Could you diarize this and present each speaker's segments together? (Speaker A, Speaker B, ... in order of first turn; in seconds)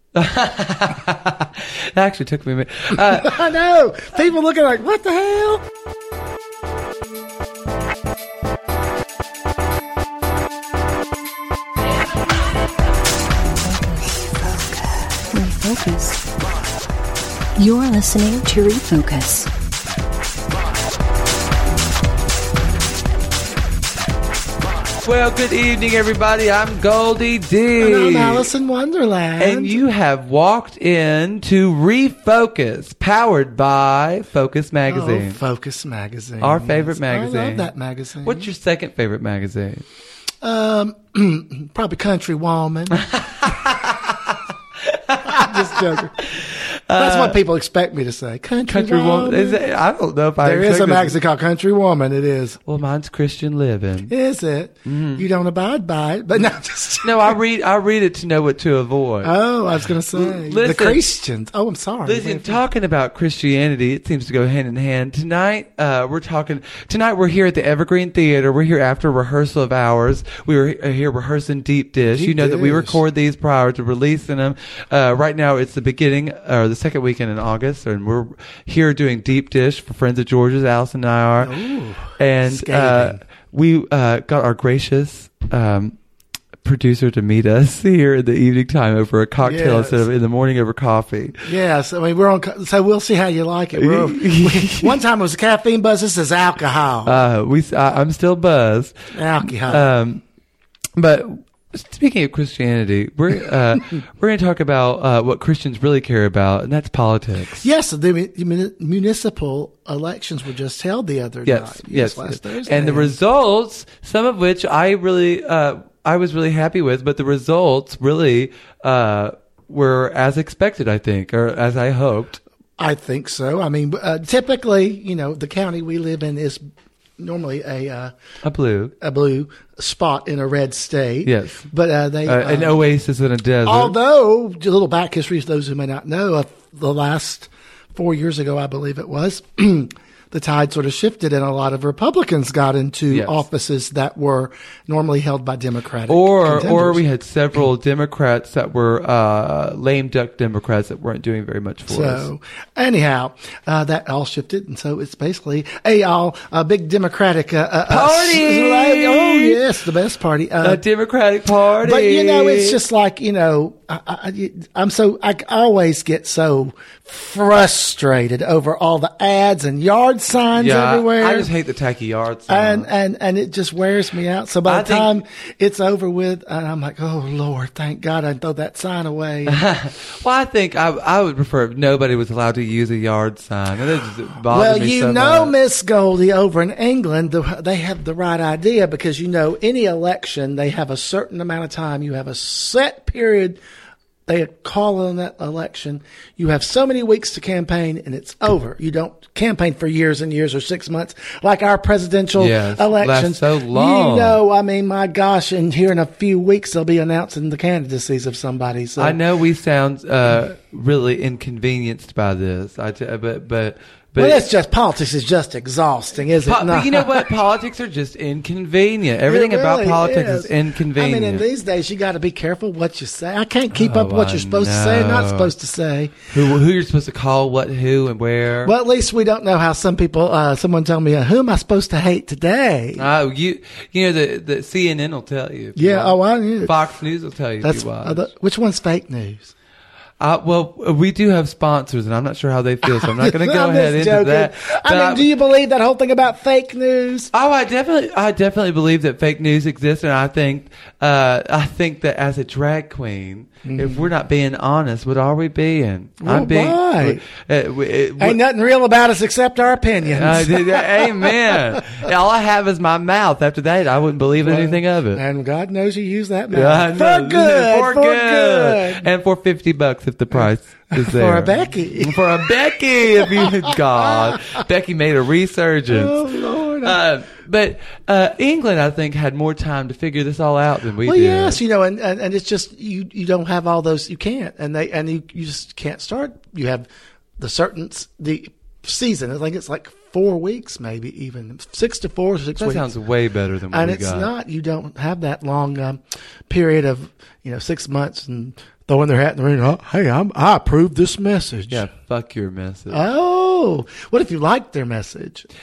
Speaker A: 0.1-3.5, 25.0-28.5, 29.4-35.4, 36.4-37.7, 38.2-39.8, 43.0-47.4, 48.7-51.2, 52.6-54.1, 54.9-55.2, 57.0-59.3, 60.1-61.0, 62.0-81.5, 82.2-86.0, 86.6-91.5, 93.7-95.0, 97.0-99.0, 99.7-100.2, 101.0-107.7, 111.4-122.4, 128.4-128.9, 131.2-131.7, 132.2-133.9, 143.1-143.4, 146.1-152.3, 157.9-159.6, 160.6-162.8, 170.5-172.9, 174.7-175.2, 179.5-185.5, 202.3-204.4, 209.0-214.4, 216.4-221.4, 223.7-225.5, 226.3-228.7, 232.9-238.3, 240.2-245.2, 247.3-258.4, 260.1-265.2, 266.5-281.6, 292.6-294.3, 301.7-303.0
Speaker B: 2.9-5.6, 27.8-29.8, 34.9-38.5, 40.4-43.0, 45.2-46.2, 47.0-49.6, 50.4-52.6, 54.1-57.3, 59.2-62.6, 72.0-73.0, 81.4-83.2, 89.4-90.1, 91.5-97.2, 99.1-99.9, 107.6-113.2, 122.8-126.6, 127.2-128.1, 129.0-132.8, 133.6-147.0, 151.9-160.8, 161.8-171.5, 172.5-179.6, 184.5-193.6, 194.3-209.2, 214.2-217.3, 219.3-226.3, 228.6-233.0, 235.8-236.7, 237.6-239.5, 242.8-247.3, 253.6-254.1, 256.2-257.2, 258.2-262.1, 264.4-269.1, 270.3-272.5, 273.2-274.6, 275.9-277.0, 281.0-292.9, 293.7-301.8, 302.9-305.4
Speaker C: 13.6-16.2, 17.6-19.5